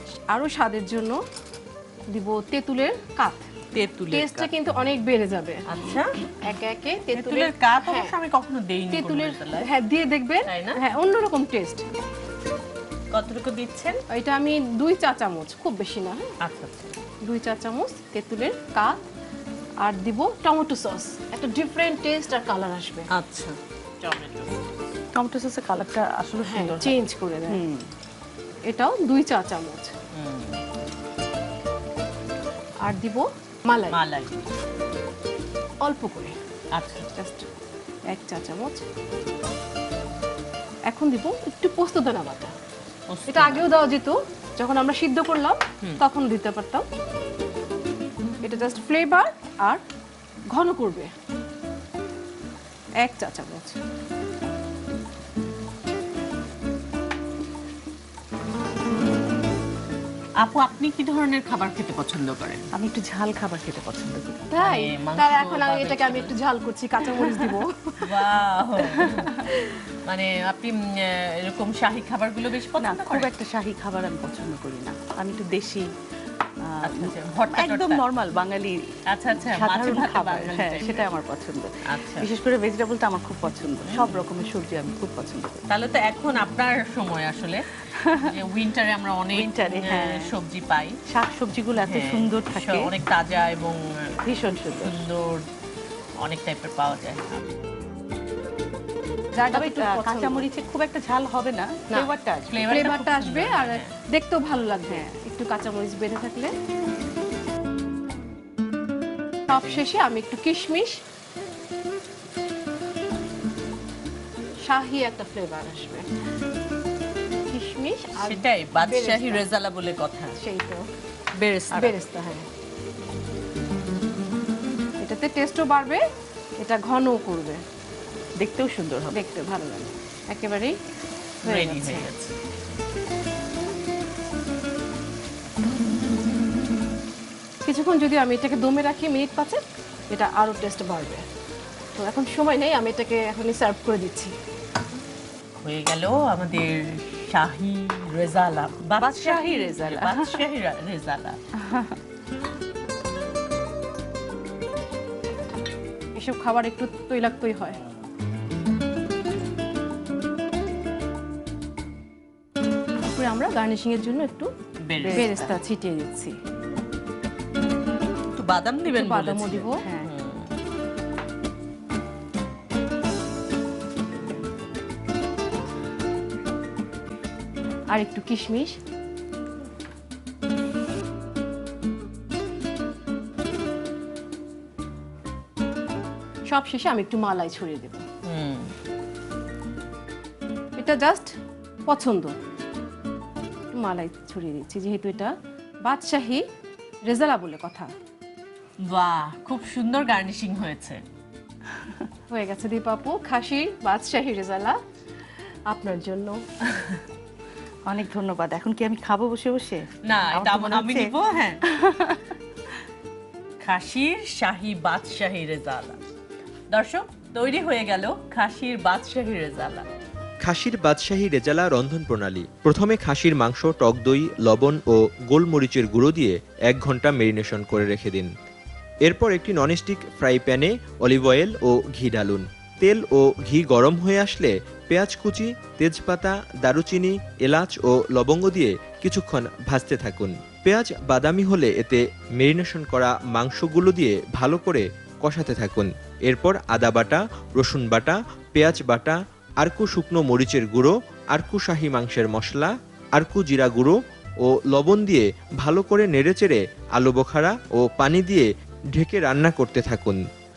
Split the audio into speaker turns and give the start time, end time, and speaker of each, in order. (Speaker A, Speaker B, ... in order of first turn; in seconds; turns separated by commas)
Speaker A: 0.3-1.2, Speaker A: 2.1-3.5, Speaker B: 3.7-4.5, Speaker A: 4.1-5.6, Speaker B: 5.7-6.2, Speaker A: 6.4-8.1, Speaker B: 7.1-9.7, Speaker A: 8.9-11.8, Speaker B: 10.5-10.8, Speaker B: 13.1-14.0, Speaker A: 14.1-16.3, Speaker B: 16.4-17.0, Speaker A: 17.2-19.0, Speaker A: 19.8-23.1, Speaker B: 23.1-24.6, Speaker C: 25.1-27.0, Speaker A: 26.5-27.6, Speaker C: 27.5-27.9, Speaker A: 28.6-29.9, Speaker B: 30.1-30.6, Speaker A: 32.8-34.0, Speaker B: 33.9-34.4, Speaker A: 35.8-36.4, Speaker B: 36.7-37.1, Speaker A: 37.1-37.5, Speaker A: 38.1-38.8, Speaker A: 40.9-42.5, Speaker B: 43.1-43.6, Speaker A: 43.3-46.8, Speaker A: 48.4-49.8, Speaker A: 50.5-51.1, Speaker A: 53.0-53.8, Speaker B: 60.4-62.7, Speaker C: 62.7-64.5, Speaker A: 64.5-68.1, Speaker B: 64.6-66.3, Speaker C: 67.2-67.6, Speaker B: 68.0-69.3, Speaker A: 69.0-69.8, Speaker B: 70.1-73.3, Speaker C: 72.8-75.9, Speaker C: 76.6-78.8, Speaker B: 76.8-78.0, Speaker B: 79.1-81.1, Speaker C: 79.4-85.6, Speaker B: 81.9-82.3, Speaker B: 83.8-84.2, Speaker B: 85.7-87.7, Speaker C: 88.0-88.3, Speaker B: 88.2-91.0, Speaker C: 89.3-90.3, Speaker C: 91.1-92.9, Speaker B: 91.8-94.2, Speaker C: 94.2-95.1, Speaker B: 94.8-95.4, Speaker B: 96.2-97.5, Speaker A: 99.4-100.5, Speaker C: 99.5-102.5, Speaker B: 102.5-103.9, Speaker A: 102.7-106.5, Speaker C: 104.9-105.2, Speaker A: 109.5-111.0, Speaker B: 109.5-109.8, Speaker A: 114.6-116.0, Speaker A: 117.5-119.4, Speaker B: 118.2-120.4, Speaker A: 120.4-120.8, Speaker B: 121.4-122.0, Speaker A: 121.7-122.5, Speaker A: 125.0-126.0, Speaker A: 126.6-127.6, Speaker B: 128.4-129.1, Speaker A: 129.1-130.7, Speaker A: 131.4-132.1, Speaker B: 131.4-132.3, Speaker A: 137.6-141.2, Speaker A: 141.9-144.3, Speaker B: 145.6-151.4, Speaker C: 149.0-150.4, Speaker C: 151.6-152.0, Speaker A: 156.1-157.8, Speaker A: 163.0-164.5, Speaker B: 164.8-165.3, Speaker C: 165.0-165.6, Speaker A: 165.1-166.3, Speaker B: 168.3-170.5, Speaker A: 168.9-169.8, Speaker C: 169.8-170.1, Speaker A: 177.9-178.8, Speaker A: 186.5-188.0, Speaker B: 188.2-188.7, Speaker A: 190.8-191.3, Speaker A: 191.9-192.4, Speaker A: 193.7-195.3, Speaker A: 195.8-196.4, Speaker A: 197.1-197.9, Speaker B: 198.9-201.0, Speaker A: 202.3-204.8, Speaker A: 205.7-206.4, Speaker C: 207.9-211.1, Speaker B: 210.0-211.6, Speaker C: 211.6-212.4, Speaker B: 213.6-216.0, Speaker B: 216.7-219.9, Speaker D: 220.4-228.3, Speaker D: 229.0-260.2